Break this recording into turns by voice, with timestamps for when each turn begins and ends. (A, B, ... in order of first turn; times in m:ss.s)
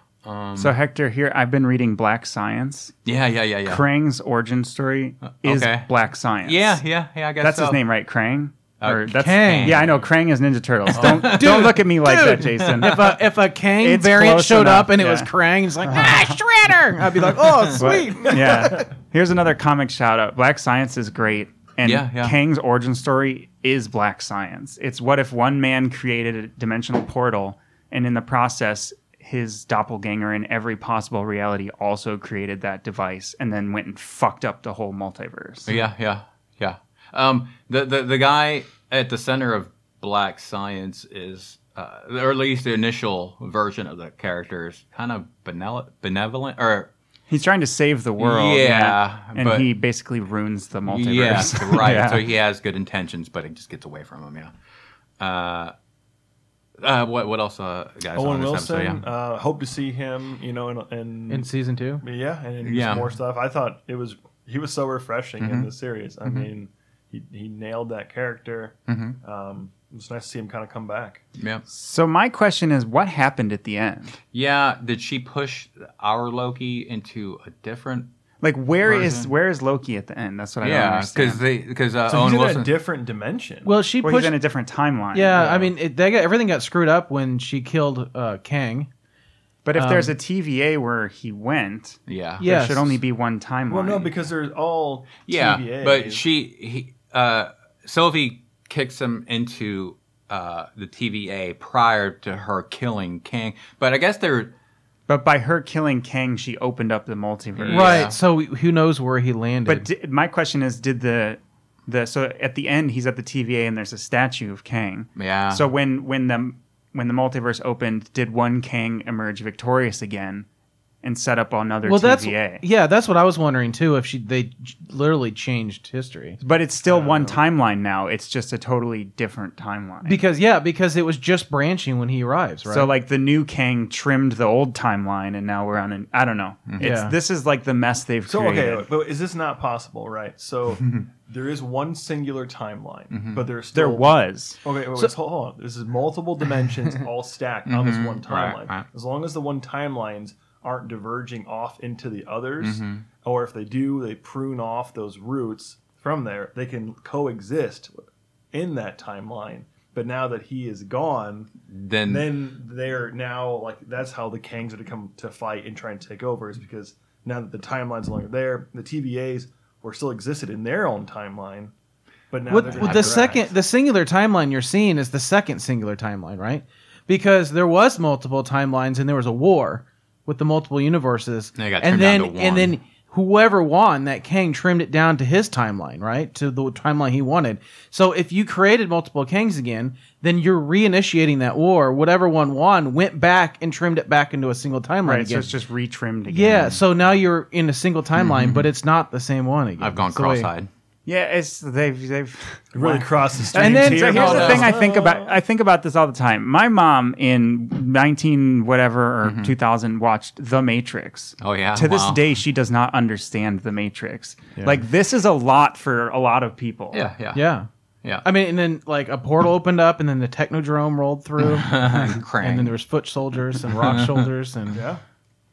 0:00.2-0:00.7 A
0:00.6-0:02.9 B
0:03.0-0:03.8 A
0:03.6-0:06.8 B
0:05.3-0:05.9 A
0:06.4-0:07.8 A
0:07.4-0:13.2 B
0:08.8-0:10.1 A
0:09.1-0:09.8 C
0:10.9-0:11.8 A
0:10.9-0:18.9 C
0:13.8-0:15.3 B
0:15.9-0:16.4 B
0:17.7-0:35.8 B
0:21.8-0:22.4 A
0:35.6-0:46.9 A
0:47.3-0:52.2 B
0:48.2-0:49.7 A
0:50.8-0:54.5 A
0:55.2-0:55.7 A
0:56.8-0:59.1 A
0:58.1-1:01.5 D
1:01.3-1:02.0 C
1:02.0-1:11.2 D
1:02.6-1:03.1 A
1:05.4-1:05.7 A
1:08.9-1:09.2 A
1:11.4-1:11.6 A
1:11.7-1:14.2 B
1:14.3-1:18.1 A
1:18.4-1:21.4 B
1:18.8-1:19.3 A
1:20.6-1:22.7 A
1:22.1-1:23.7 D
1:23.6-1:24.4 C
1:24.0-1:25.7 B
1:25.1-1:28.9 C
1:29.6-1:34.1 B
1:29.8-1:30.1 C
1:32.1-1:32.4 A
1:32.4-1:32.9 C
1:33.7-1:36.2 D
1:35.2-1:44.5 A
1:45.1-1:48.1 B
1:47.6-1:48.2 A
1:47.7-1:49.9 C
1:49.6-2:00.5 B
1:55.2-1:55.6 A
2:01.0-2:02.6 B
2:01.9-2:06.4 C
2:06.4-2:10.2 B
2:06.8-2:07.4 D
2:10.0-2:12.9 C
2:12.7-2:18.8 B
2:16.8-2:17.1 C
2:18.3-2:38.0 D
2:23.1-2:23.4 A
2:23.7-2:24.6 B
2:27.7-2:28.8 A
2:32.6-2:33.0 A
2:38.5-2:41.5 D
2:41.7-2:42.3 A
2:42.1-2:51.7 D
2:52.3-2:53.5 D
2:52.5-3:15.5 C
2:52.6-2:53.4 A
3:01.6-3:02.7 A
3:15.0-3:16.8 B
3:16.3-3:20.5 C
3:18.1-3:18.7 A
3:19.8-3:20.7 A
3:21.0-3:37.0 B
3:22.7-3:25.4 D
3:23.5-3:24.7 C
3:24.2-3:24.7 A
3:29.2-3:29.5 A
3:31.4-3:32.2 A
3:36.9-3:37.4 A
3:37.3-3:37.7 C
3:38.2-3:44.9 C
3:41.4-3:42.7 A
3:43.8-3:44.3 A
3:44.7-3:45.0 D